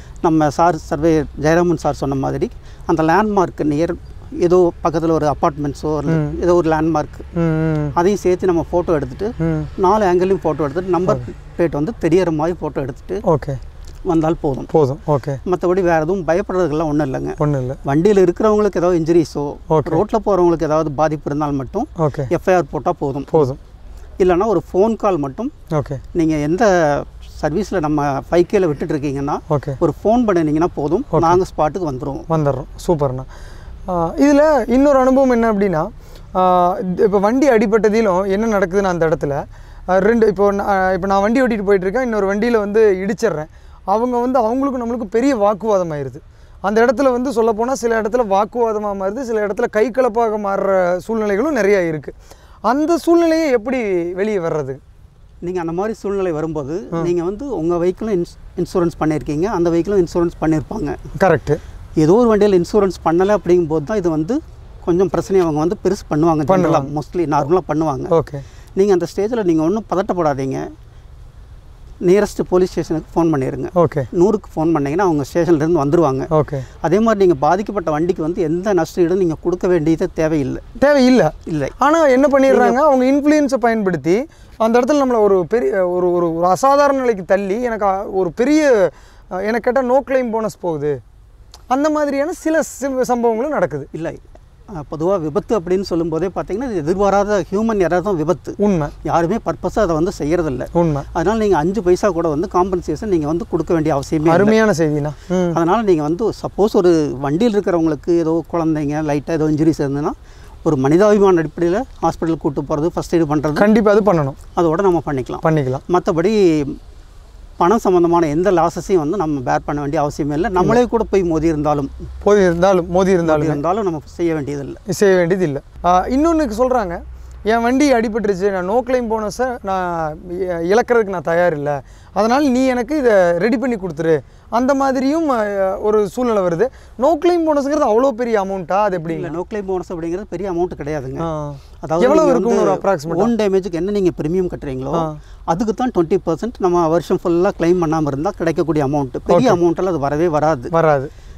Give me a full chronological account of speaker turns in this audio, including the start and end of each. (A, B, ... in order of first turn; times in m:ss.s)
0:00.2-0:07.2 A
0:06.1-0:06.3 B
0:07.4-0:07.9 B
0:07.9-0:13.2 A
0:09.4-0:09.7 B
0:13.2-0:13.6 B
0:14.1-0:14.7 A
0:14.7-0:15.4 B
0:15.4-0:23.5 A
0:17.4-0:17.8 B
0:19.7-0:20.0 B
0:22.0-0:22.3 B
0:23.3-0:23.6 B
0:24.2-0:25.5 A
0:25.7-0:26.0 B
0:26.1-0:32.3 A
0:29.5-0:29.8 B
0:31.1-0:31.4 B
0:32.3-0:33.3 B
0:33.9-0:52.1 B
0:52.7-0:54.8 B
0:55.4-1:01.0 A
1:01.2-1:01.6 B
1:02.0-1:08.1 A
1:06.5-1:06.9 B
1:08.1-1:08.4 B
1:08.8-1:10.6 A
1:12.0-1:16.3 A
1:13.7-1:14.1 B
1:16.3-1:16.6 B
1:16.8-1:20.6 A
1:20.8-1:31.0 B
1:21.5-1:21.7 A
1:22.5-1:22.8 A
1:31.7-1:33.9 B
1:33.9-1:34.2 A
1:34.7-1:44.6 A
1:38.6-1:38.9 B
1:40.7-1:41.0 B
1:44.2-1:45.6 B
1:45.5-1:53.7 A
1:53.6-1:54.4 B
1:54.6-1:56.8 A
1:55.4-1:55.8 B
1:57.6-2:01.9 A
2:02.2-2:03.6 B
2:03.2-2:04.8 A
2:04.9-2:19.3 B
2:19.0-2:21.3 A
2:21.2-2:23.3 B
2:21.8-2:30.7 A
2:29.3-2:29.6 B
2:30.7-2:31.1 B